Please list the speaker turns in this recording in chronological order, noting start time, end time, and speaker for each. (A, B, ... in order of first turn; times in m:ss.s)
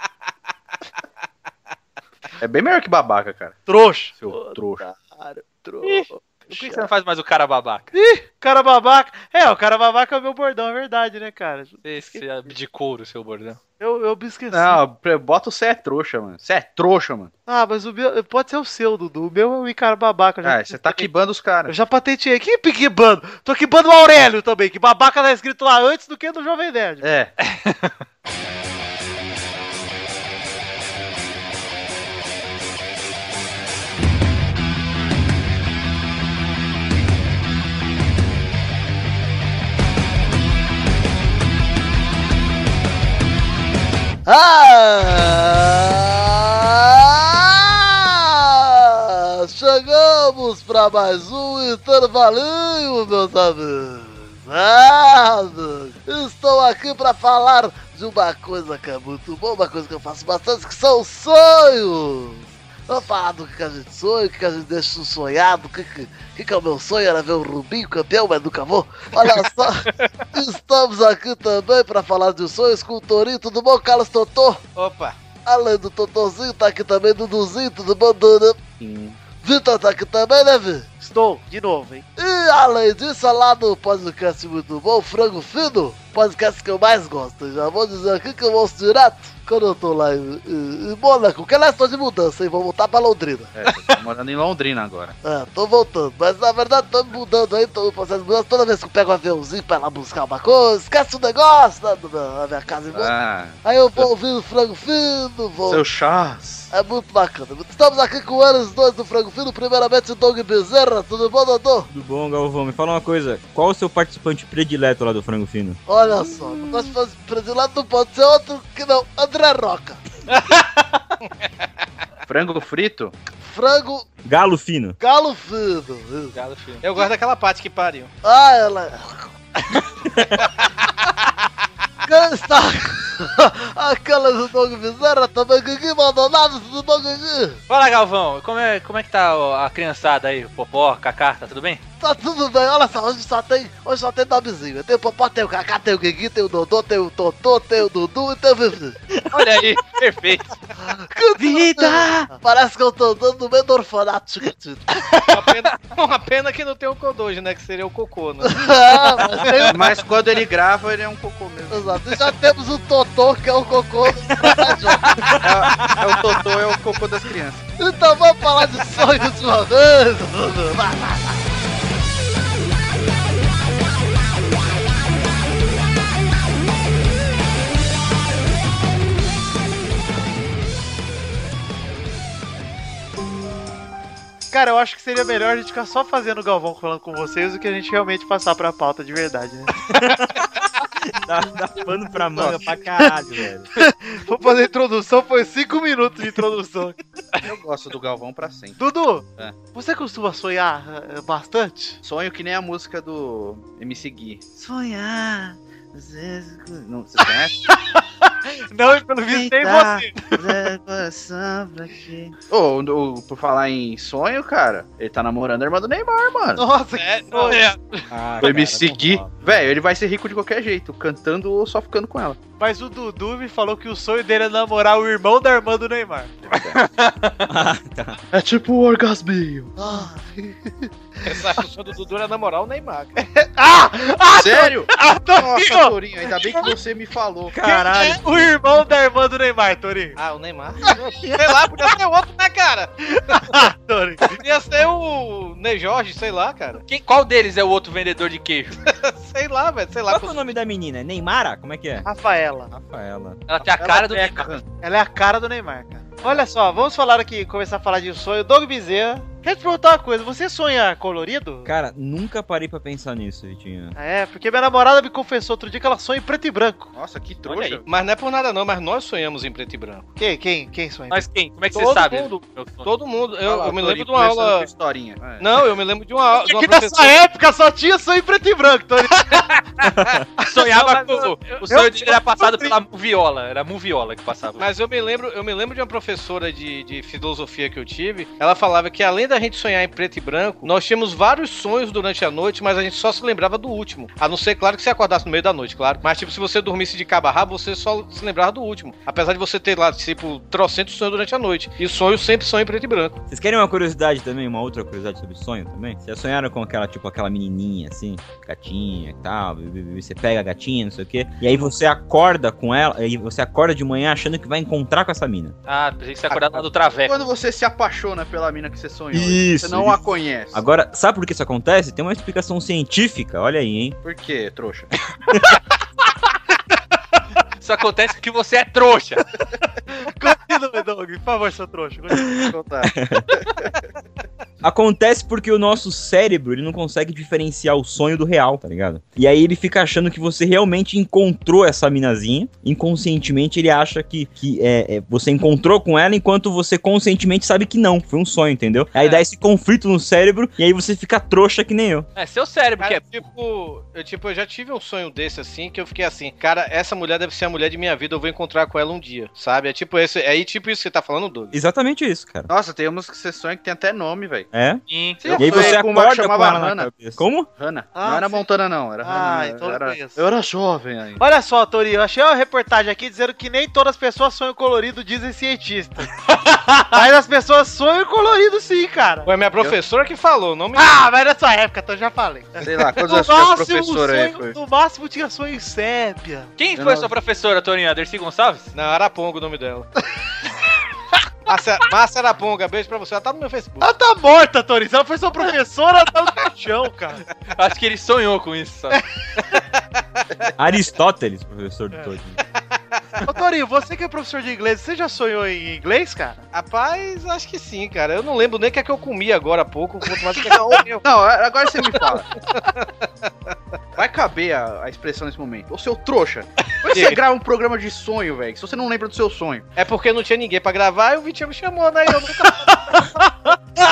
0:02.4-0:03.6 A
0:03.7-0:06.9 B
0:04.2-0:04.8 A
0:05.8-0:07.9 C
0:07.9-0:12.2 B
0:11.8-0:13.6 C
0:13.8-0:14.8 B
0:14.5-0:17.3 A
0:17.5-0:21.1 B
0:20.4-0:21.7 A
0:21.7-0:27.1 B
0:27.0-0:27.3 A
0:27.4-0:27.9 C
0:44.3-1:14.6 D
1:14.8-1:15.2 E
1:15.5-1:18.6 D
1:18.8-1:19.2 A
1:19.4-1:20.9 D
1:21.0-1:22.1 B
1:22.2-1:33.5 D
1:33.6-1:35.2 A
1:35.2-1:45.8 D
1:42.9-1:44.1 A
1:45.7-1:46.7 A
1:46.7-1:51.9 D
1:51.9-1:55.8 F
1:55.9-2:00.0 D
1:56.1-1:56.8 A
2:00.3-2:00.6 E
2:02.3-2:03.2 A
2:03.4-2:04.1 D
2:04.2-2:05.0 F
2:05.0-2:06.4 D
2:06.3-2:06.8 C
2:06.8-2:08.1 E
2:08.2-2:09.8 D
2:12.1-2:17.6 D
2:17.7-2:21.8 C
2:22.0-2:29.0 D
2:29.3-2:30.6 C
2:30.8-2:35.2 D
2:31.4-2:32.3 A
2:35.3-2:38.6 E
2:38.4-2:39.9 D
2:39.6-2:42.0 A
2:41.7-2:45.2 D
2:45.2-2:47.7 A
2:45.6-2:45.9 F
2:47.8-2:51.5 D
3:04.5-3:09.9 B
3:09.9-3:13.7 F
3:12.4-3:12.6 A
3:13.8-3:17.0 B
3:17.4-3:18.8 A
3:18.8-3:22.0 B
3:22.0-3:27.7 A
3:27.2-3:30.7 B
3:29.3-3:36.6 A
3:36.6-3:37.7 B
3:37.0-3:37.8 E
3:37.5-3:37.8 C
3:38.1-3:39.3 F
3:38.4-3:38.6 C
3:38.4-3:42.4 A
3:42.6-3:46.3 B
3:46.5-3:46.8 A
3:46.7-3:47.4 C
3:47.4-3:48.2 F
3:48.3-3:49.7 A
3:49.8-3:50.9 B
3:51.2-3:53.2 E
3:53.2-3:56.7 B
3:54.4-3:57.6 A
3:57.5-3:58.5 F
3:57.6-4:00.2 B
4:00.2-4:02.9 E
4:00.8-4:01.5 B
4:03.1-4:04.4 B
4:04.2-4:06.8 E
4:06.8-4:08.8 C
4:08.8-4:10.5 E
4:10.1-4:12.1 F
4:12.0-4:12.7 B
4:12.7-4:13.4 F
4:13.5-4:14.5 C
4:13.6-4:14.6 A
4:14.8-4:21.7 B
4:21.6-4:24.0 F
4:24.0-4:26.9 B
4:26.9-4:27.9 A
4:27.4-4:27.8 C
4:27.9-4:30.1 E
4:30.2-4:31.3 B
4:31.1-4:32.9 C
4:31.7-4:32.3 E
4:32.8-4:34.7 E
4:33.4-4:35.5 A
4:35.4-4:37.2 E
4:36.4-4:39.5 B
4:39.1-4:39.6 C
4:39.8-4:40.2 F
4:40.4-4:44.6 C
4:40.4-4:42.7 B
4:40.8-4:41.6 E
4:44.6-5:03.2 E
5:03.3-5:15.6 F
5:15.7-5:17.3 C
5:16.3-5:20.6 A
5:19.1-5:24.0 F
5:24.0-5:24.9 A
5:27.6-5:29.2 C
5:29.9-5:32.4 B
5:32.3-5:33.4 F
5:32.4-5:33.7 A
5:34.6-5:52.1 F
5:49.0-5:49.2 C
5:52.2-5:53.2 C
5:52.8-6:01.6 E
6:01.5-6:02.5 F
6:02.5-6:04.5 A
6:04.5-6:04.8 F
6:04.9-6:05.7 C
6:05.2-6:11.2 A
6:05.3-6:05.8 E
6:05.3-6:07.5 F
6:08.0-6:08.5 B
6:09.0-6:10.3 B
6:11.2-6:19.3 B
6:19.2-6:21.0 E
6:20.7-6:26.5 B
6:22.6-6:24.6 A
6:26.6-6:28.7 C
6:26.8-6:27.1 A
6:28.7-6:29.9 E
6:31.5-6:33.9 E
6:33.8-6:37.2 B
6:37.5-6:39.0 C
6:40.2-6:40.5 E
6:40.6-6:42.4 F
6:43.2-6:46.4 B
6:46.5-6:51.0 E
6:50.5-6:52.5 A
6:52.6-6:53.3 E
6:54.0-6:59.6 A
6:56.9-6:57.2 E
6:59.8-7:03.1 E
7:02.4-7:03.5 B